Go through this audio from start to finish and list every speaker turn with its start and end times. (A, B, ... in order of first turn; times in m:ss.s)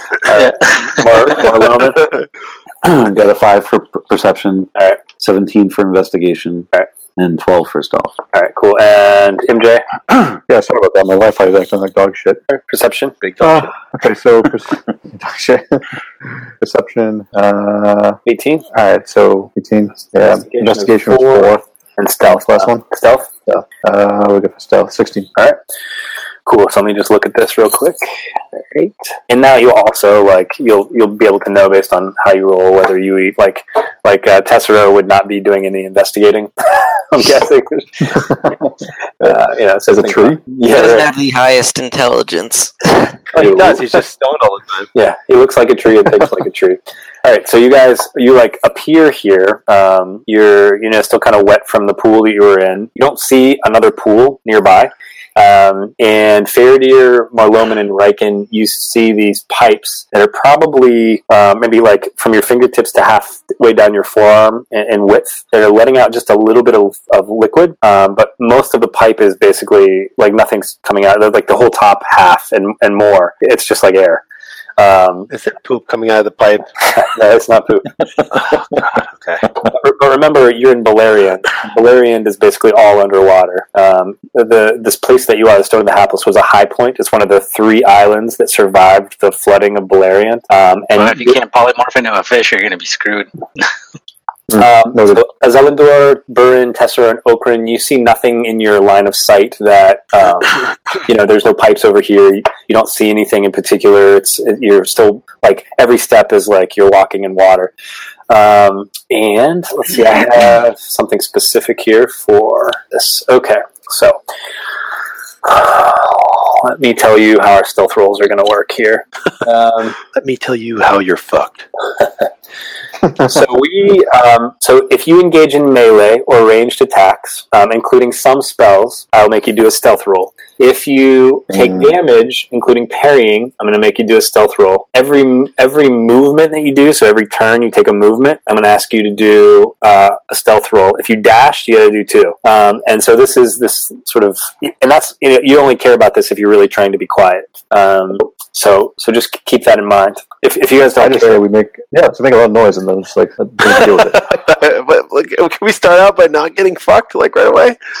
0:00.2-0:02.1 A
0:00.3-0:01.3 B
0:02.8-0:08.2 C
0:04.8-0:05.0 A
0:08.3-0:09.8 A
0:10.5-0:12.4 D
0:12.5-0:13.1 A
0:13.2-0:13.6 E
0:13.4-0:15.8 D
0:16.6-0:18.2 D
0:18.2-0:18.6 A
0:18.7-0:21.6 D
0:20.2-0:23.3 A
0:22.2-0:22.8 D
0:23.5-0:25.3 D
0:26.4-0:28.0 A
0:28.5-0:38.3 A
0:39.2-0:41.1 A
0:39.9-0:40.4 D
0:40.6-0:42.9 F
0:43.3-0:43.8 A
0:43.3-0:44.9 E
0:44.9-1:14.2 A
1:14.8-1:15.3 A
1:15.3-1:16.6 E
1:16.9-1:18.0 A
1:18.4-1:19.5 E
1:19.6-1:31.4 A
1:31.0-1:33.3 B
1:34.5-1:35.2 D
1:34.5-1:47.7 A
1:48.3-1:54.2 A
1:55.4-2:00.0 A
2:00.1-2:01.6 E
2:03.2-2:31.4 A
2:31.0-2:34.3 D
2:33.7-2:37.8 E